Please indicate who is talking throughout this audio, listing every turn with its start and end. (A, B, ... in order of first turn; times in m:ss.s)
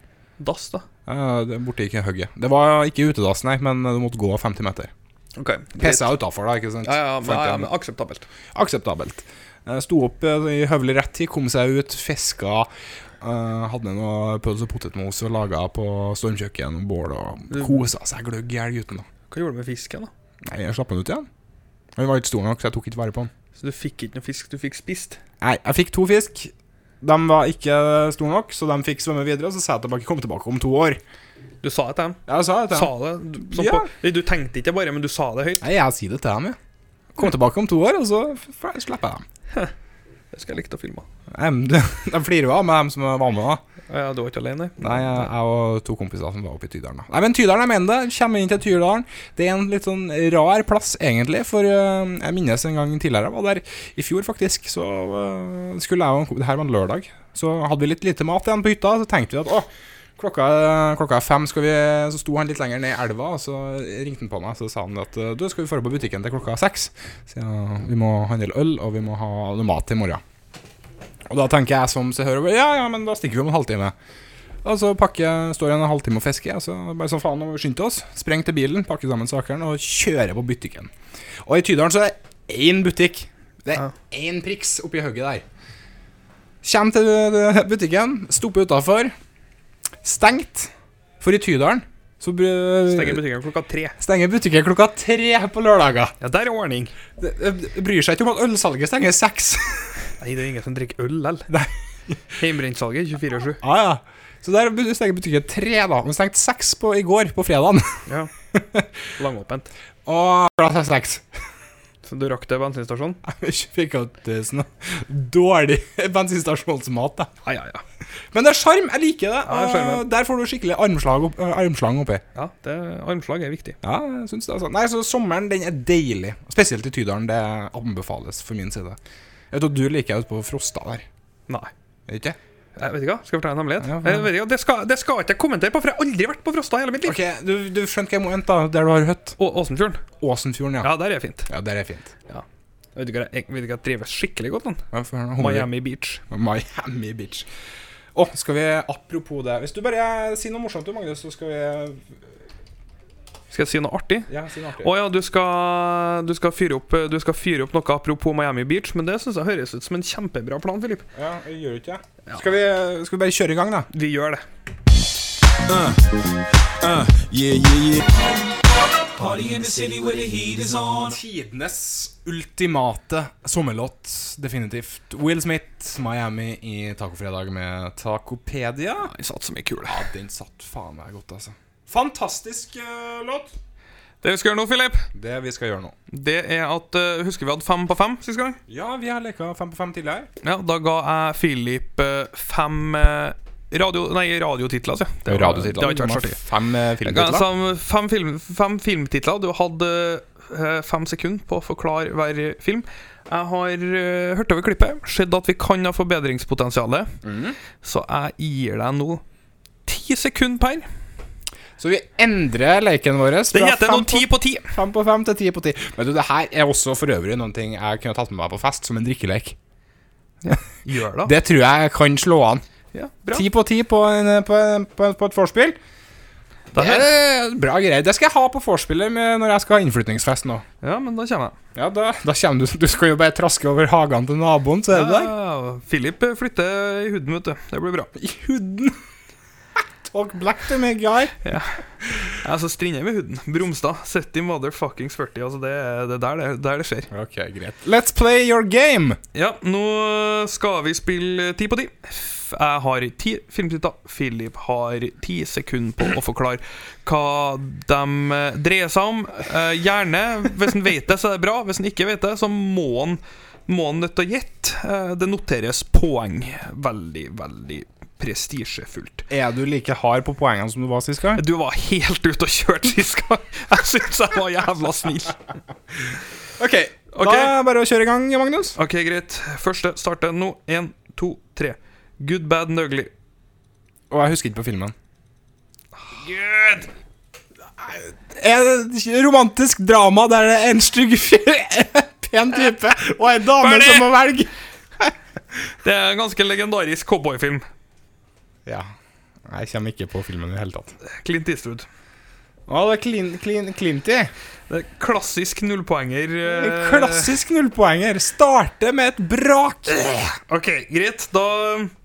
0:00.4-0:00.9 A
0:01.1-0:04.9 B
0:05.4-0:06.1 A
0:05.8-0:07.7 B
0:06.8-0:08.3 A
0:08.5-0:12.7 B
0:13.2-0:19.1 B
0:17.5-0:17.8 A
0:19.3-0:20.1 A
0:20.4-0:21.3 B
0:22.0-0:23.3 B
0:23.6-0:25.2 A
0:25.4-0:31.0 B
0:31.6-0:35.7 A
0:32.3-0:32.9 B
0:33.4-0:33.9 B
0:35.6-0:36.6 B
0:37.2-0:39.2 B
0:40.3-0:41.1 A
0:41.3-0:43.6 B
0:43.9-0:45.3 A
0:44.8-1:10.2 B
1:11.3-1:13.9 B
1:14.6-1:20.9 B
1:21.4-1:25.4 B
1:26.6-1:29.1 B
1:30.0-1:33.2 B
1:32.8-1:34.0 A
1:34.0-1:36.1 B
1:36.2-1:36.9 A
1:37.2-1:40.0 B
1:40.2-1:41.5 A
1:41.5-1:42.2 B
1:42.4-1:43.6 A
1:43.6-1:48.0 B
1:48.5-1:48.9 B
1:49.2-1:49.7 A
1:50.1-1:51.3 B
1:52.0-1:53.2 A
1:53.2-1:57.3 B
1:57.4-1:57.8 A
1:58.3-2:02.2 B
1:59.5-2:00.1 A
2:02.4-2:03.8 A
2:03.8-2:09.0 B
2:09.5-2:11.1 B
2:12.1-2:12.4 B
2:12.8-2:17.2 A
2:13.8-2:14.3 B
2:17.0-2:19.4 B
2:19.4-2:20.0 A
2:20.2-2:20.9 B
2:20.8-2:21.5 A
2:21.5-2:22.1 B
2:23.0-2:24.9 A
2:24.9-2:25.7 B
2:25.4-2:26.2 A
2:26.3-2:27.5 B
2:28.2-2:32.1 B
2:33.5-2:41.0 A
2:34.3-2:34.9 B
2:41.2-2:43.9 B
2:43.9-2:44.4 A
2:45.7-2:46.0 B
2:46.8-2:48.1 B
2:50.5-2:59.1 B
2:59.0-3:00.0 A
2:59.9-3:03.5 B
3:04.2-3:05.1 A
3:05.1-3:06.0 B
3:06.1-3:08.6 A
3:08.7-3:10.3 B
3:10.4-3:16.4 A
3:15.3-3:17.5 B
3:17.0-3:27.2 A
3:27.2-3:27.6 B
3:27.8-3:29.2 A
3:29.9-3:30.9 A
3:31.8-3:39.6 B
3:33.5-3:34.7 A
3:40.4-3:41.4 A
3:41.2-3:42.6 B
3:42.9-3:43.5 A
3:43.3-3:45.8 B
3:46.7-3:47.1 A
3:46.7-3:50.6 B
3:50.8-3:51.6 A
3:51.8-3:55.3 B
3:54.9-3:58.1 A
3:58.2-3:59.0 B
4:00.0-4:01.4 B
4:01.4-4:07.1 A
4:07.1-4:09.2 B
4:09.3-4:29.3 A
4:29.3-4:31.4 B
4:31.4-4:35.4 A
4:36.6-4:38.8 B
4:37.1-4:37.6 A
4:38.8-4:43.1 A
4:44.1-4:45.0 B
4:46.0-4:46.9 A
4:47.8-4:55.1 B
4:53.6-4:54.1 A
4:55.8-4:57.7 A
4:59.5-5:01.0 B
5:01.0-5:01.9 A
5:02.7-5:04.3 B
5:04.7-5:07.4 A
5:06.4-5:10.4 B
5:10.5-5:11.9 A